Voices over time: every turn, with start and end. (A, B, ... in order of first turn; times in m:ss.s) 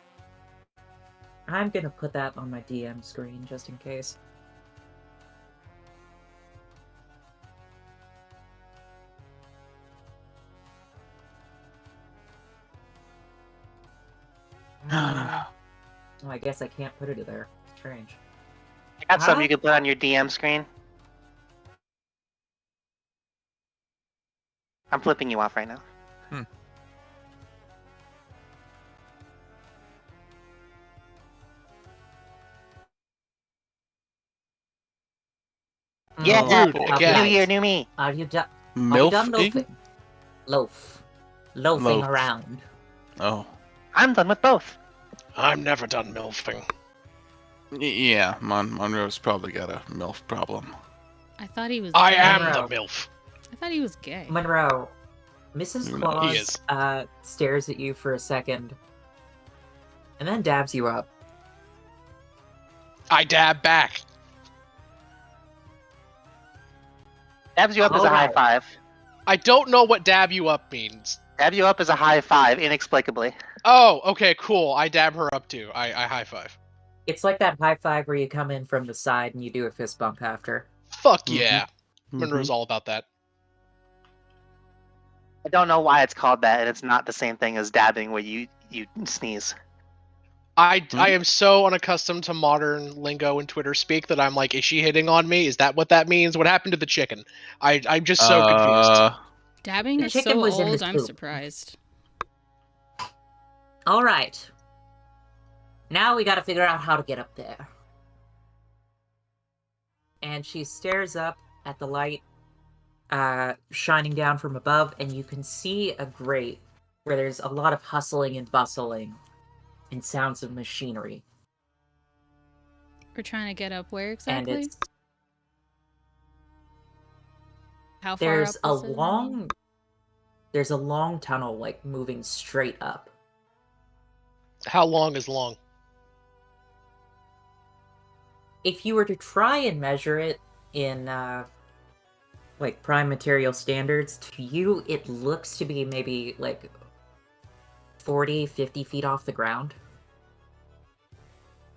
0:01.5-0:04.2 A
0:14.8-0:15.4 A
0:14.9-0:15.5 B
0:16.2-0:18.2 A
0:19.0-0:20.6 C
0:19.1-0:19.5 A
0:24.9-0:25.8 C
0:36.2-0:39.7 A
0:36.2-0:37.9 C
0:36.3-0:37.0 B
0:36.6-0:37.3 D
0:38.7-0:39.6 B
0:40.5-0:41.0 A
0:41.5-0:42.6 A
0:41.7-0:42.2 B
0:43.2-0:43.5 B
0:43.9-0:44.8 C
0:45.4-0:46.6 D
0:47.7-0:50.7 B
0:51.4-0:52.7 E
0:52.0-0:52.8 D
0:52.2-0:52.7 A
0:53.5-0:54.4 E
0:54.3-0:54.9 A
0:55.5-0:58.8 A
0:55.8-0:56.4 B
1:00.2-1:01.1 A
1:03.1-1:04.0 D
1:07.6-1:08.7 C
1:07.8-1:08.4 A
1:09.3-1:11.1 D
1:11.4-1:13.4 C
1:13.7-1:16.5 D
1:17.0-1:20.7 A
1:21.0-1:21.6 D
1:21.3-1:22.5 B
1:22.2-1:23.0 D
1:25.4-1:29.5 C
1:30.6-1:38.9 D
1:38.2-1:39.2 B
1:39.6-1:41.8 E
1:40.0-1:41.3 A
1:43.9-1:44.5 A
1:45.9-1:47.7 A
1:50.2-1:52.2 A
1:53.1-1:59.2 A
1:59.9-2:01.2 A
2:03.1-2:04.7 E
2:04.3-2:04.8 A
2:08.0-2:09.4 E
2:08.2-2:09.5 A
2:10.5-2:13.1 A
2:14.7-2:15.5 D
2:18.6-2:21.5 A
2:22.6-2:26.7 A
2:28.0-2:29.8 A